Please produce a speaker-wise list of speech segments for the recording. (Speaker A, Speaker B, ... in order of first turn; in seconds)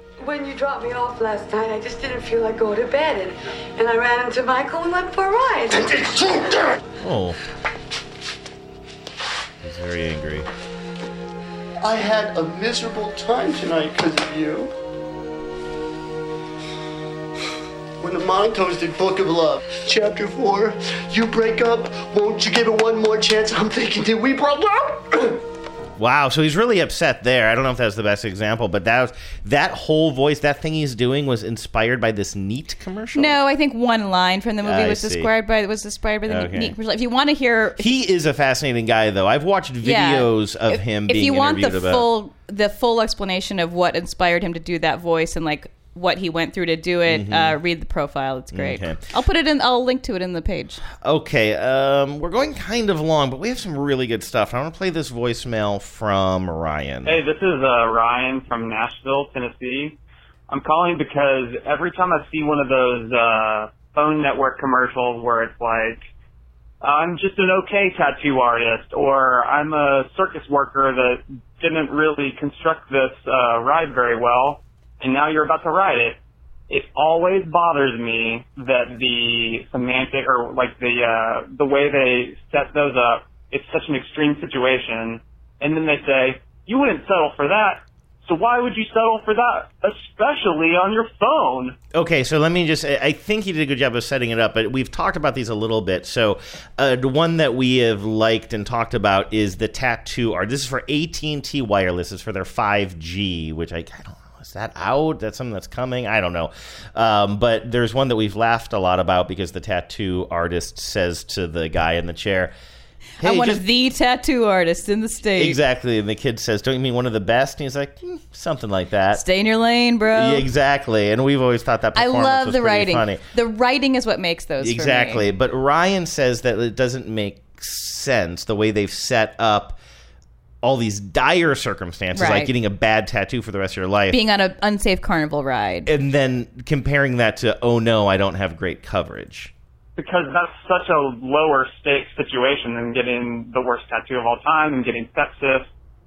Speaker A: 0.2-5.8
Speaker B: 5.7-6.8, 11.8-14.7, 18.0-25.4
Speaker C: 7.0-7.4, 9.6-10.5, 26.0-33.4, 34.6-35.3, 36.3-36.7, 37.8-42.1, 47.1-47.6, 48.5-49.0, 51.0-57.2, 91.9-112.5, 113.2-113.6, 115.4-119.2, 120.1-123.2, 124.6-129.8, 130.6-134.2, 135.8-139.5
Speaker D: 33.1-37.9, 39.8-50.8, 113.2-115.6, 119.1-120.5, 121.9-125.2, 132.1-132.5, 134.1-135.9
Speaker E: 57.0-60.0, 60.5-66.0, 66.8-76.2, 76.7-91.8, 139.9-145.7